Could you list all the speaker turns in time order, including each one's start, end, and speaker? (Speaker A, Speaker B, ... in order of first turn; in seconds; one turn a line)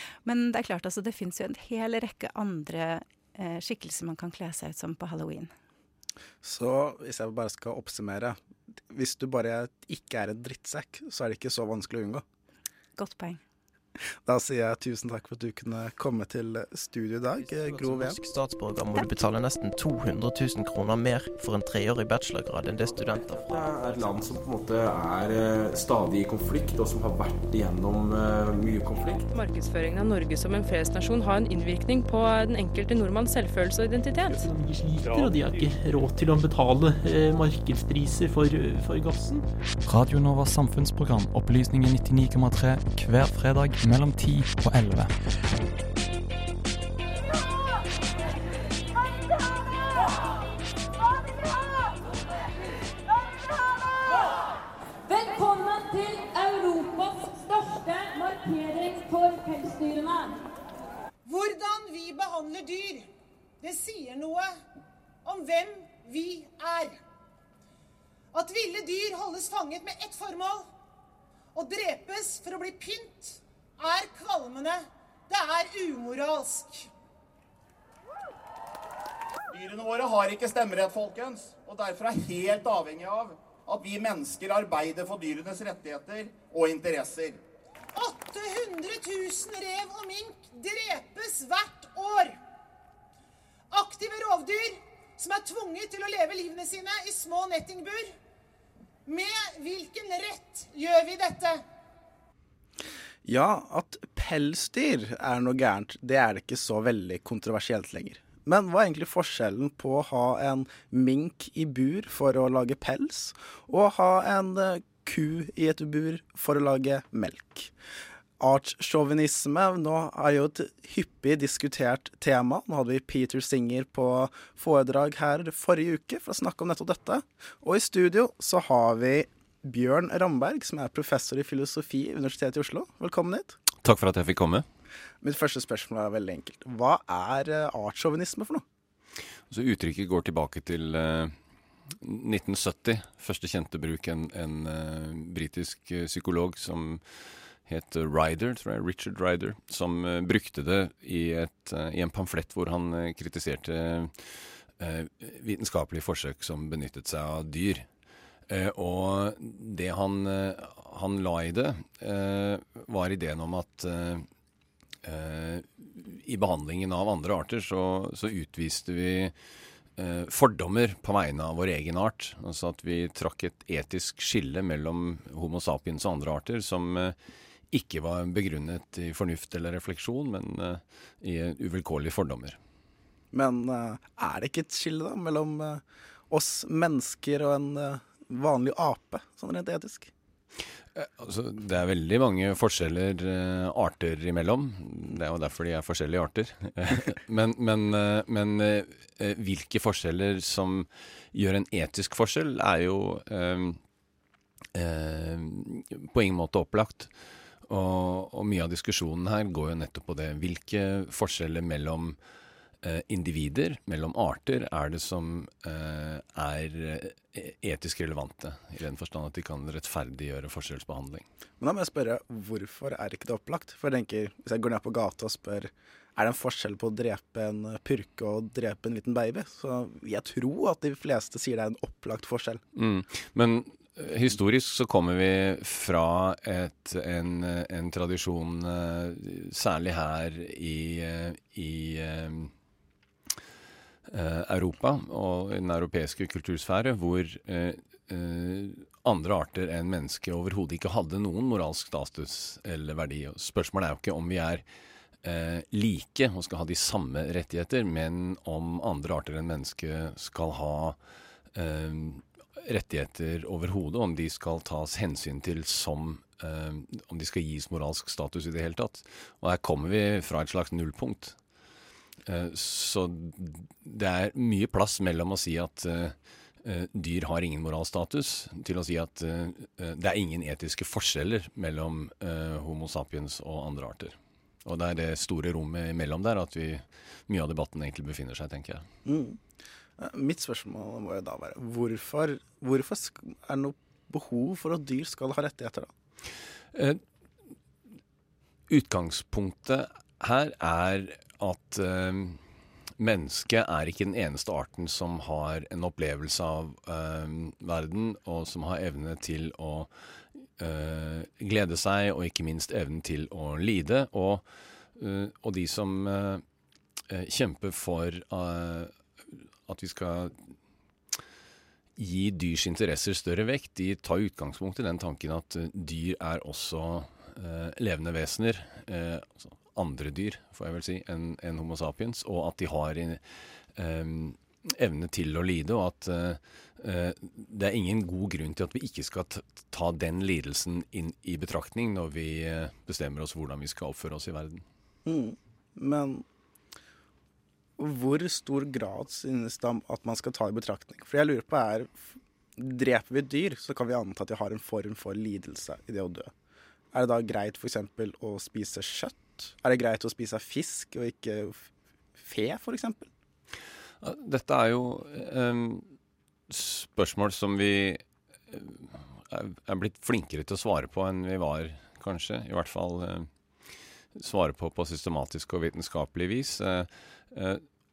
Speaker A: 0.2-5.5
Speaker B: 6.4-8.4
Speaker B: 8.9-12.2
Speaker A: 13.0-13.4
Speaker B: 14.2-18.2
Speaker C: 17.4-23.8
Speaker D: 23.4-29.2
Speaker E: 29.0-34.4
Speaker F: 34.3-39.4
Speaker G: 39.9-45.1
Speaker H: 55.1-60.4
Speaker I: 61.2-63.1
Speaker I: 63.6-64.5
Speaker I: 65.2-67.0
Speaker I: 68.3-70.7
Speaker I: 71.5-76.9
Speaker J: 79.5-87.4
Speaker I: 87.9-92.4
Speaker I: 93.7-98.1
Speaker I: 99.1-101.6
Speaker B: 103.2-117.7
Speaker B: 118.4-133.6
Speaker K: 133.8-134.7
Speaker B: 135.2-138.6
Speaker K: 139.5-141.3
Speaker K: 141.9-147.0
Speaker K: 147.7-157.9
Speaker K: 158.5-164.3
Speaker K: 165.0-169.3
Speaker K: 170.0-177.2
Speaker K: 177.7-182.6
Speaker B: 183.3-190.1
Speaker K: 191.0-203.8
Speaker K: 204.7-207.1
Speaker K: 207.7-212.2
Speaker K: 212.8-221.2
Speaker B: 221.6-232.6
Speaker K: 232.8-242.5
Speaker K: 244.1-254.6
Speaker K: 255.2-261.0
Speaker K: 261.5-271.4
Speaker K: 272.2-288.8
Speaker B: 289.1-289.4
Speaker B: 290.0-295.9
Speaker K: 296.7-297.0
Speaker K: 298.7-302.4
Speaker K: 303.0-309.9
Speaker K: 310.6-316.4
Speaker K: 317.1-320.5
Speaker K: 322.0-333.2
Speaker K: 333.8-344.6
Speaker B: 345.1-346.2
Speaker B: 347.8-356.3
Speaker B: 356.9-363.1
Speaker K: 364.0-365.9
Speaker K: 366.5-373.3
Speaker K: 374.2-377.6